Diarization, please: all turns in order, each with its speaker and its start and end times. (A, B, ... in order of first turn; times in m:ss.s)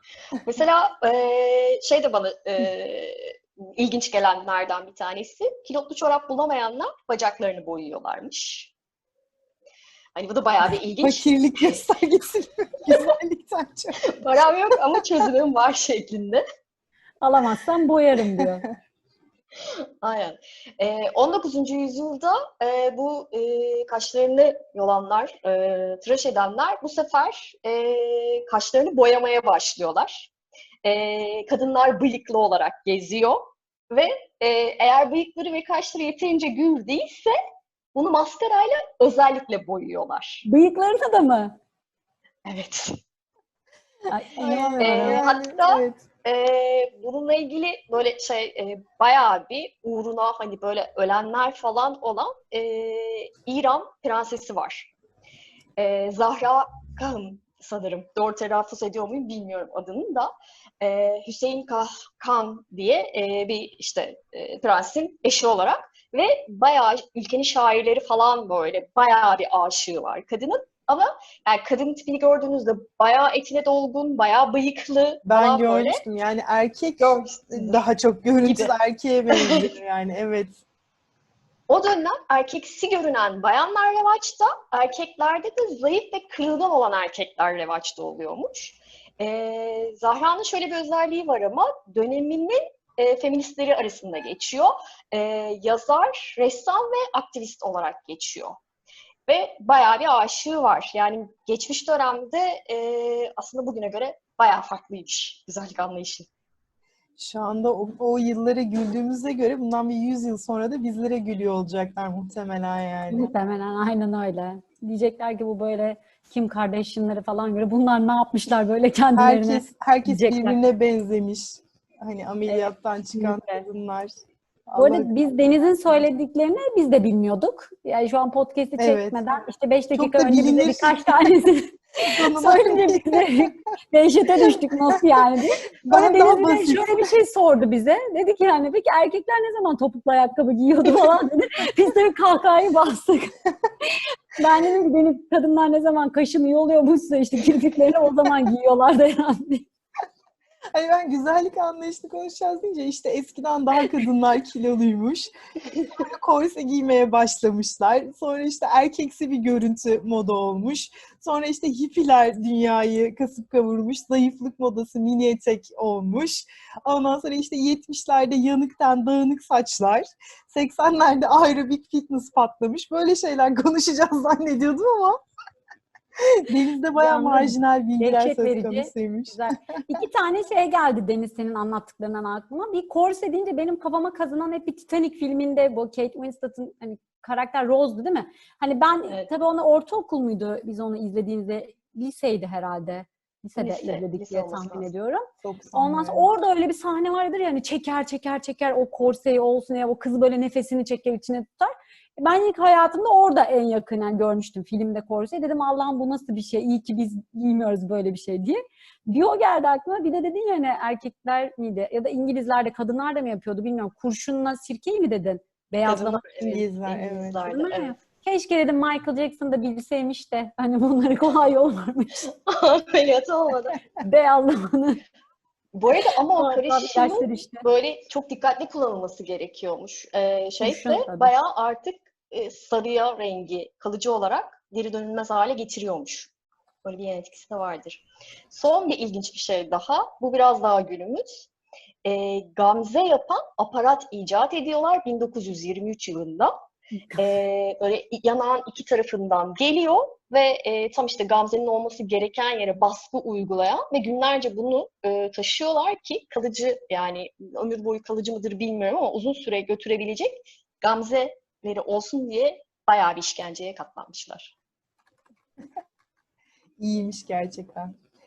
0:00.4-0:08.7 A
0:10.2-0:11.8 A
0:11.0-0:14.2 B
0:14.0-0:16.4 A
0:14.7-0:15.0 B
0:17.2-0:18.7 C
0:20.0-0:30.3 A
0:30.8-0:37.3 A
0:37.9-0:40.4 A
0:40.4-0:41.6 C
0:42.5-0:43.0 A
0:44.1-0:45.2 C
0:44.4-0:46.0 B
0:44.8-0:54.9 A
0:55.8-1:16.0 A
1:15.3-1:20.6 B
1:17.0-1:17.8 A
1:18.4-1:18.7 A
1:19.3-1:19.7 A
1:21.7-1:38.6 A
1:39.3-1:46.3 A
1:47.2-1:53.3 B
1:53.1-2:00.6 C
1:59.2-2:04.1 B
2:03.2-2:03.6 C
2:04.7-2:05.1 B
2:04.8-2:29.7 C
2:08.8-2:09.2 B
2:09.9-2:11.3 B
2:12.0-2:13.5 B
2:14.4-2:15.2 B
2:15.8-2:17.1 B
2:30.7-2:55.2 B
2:56.2-3:00.0 B
2:57.0-3:36.2 C
3:13.6-3:14.9 A
3:15.4-3:16.3 B
3:35.9-3:38.0 A
3:36.4-3:37.4 B
3:37.5-3:42.2 C
3:42.3-3:43.8 A
3:44.0-3:45.0 C
3:45.7-3:56.3 A
3:46.4-3:47.6 C
3:50.6-3:51.3 C
3:56.8-4:01.5 A
4:02.0-4:06.6 A
4:07.0-4:07.4 C
4:07.2-4:24.5 A
4:26.8-4:28.0 B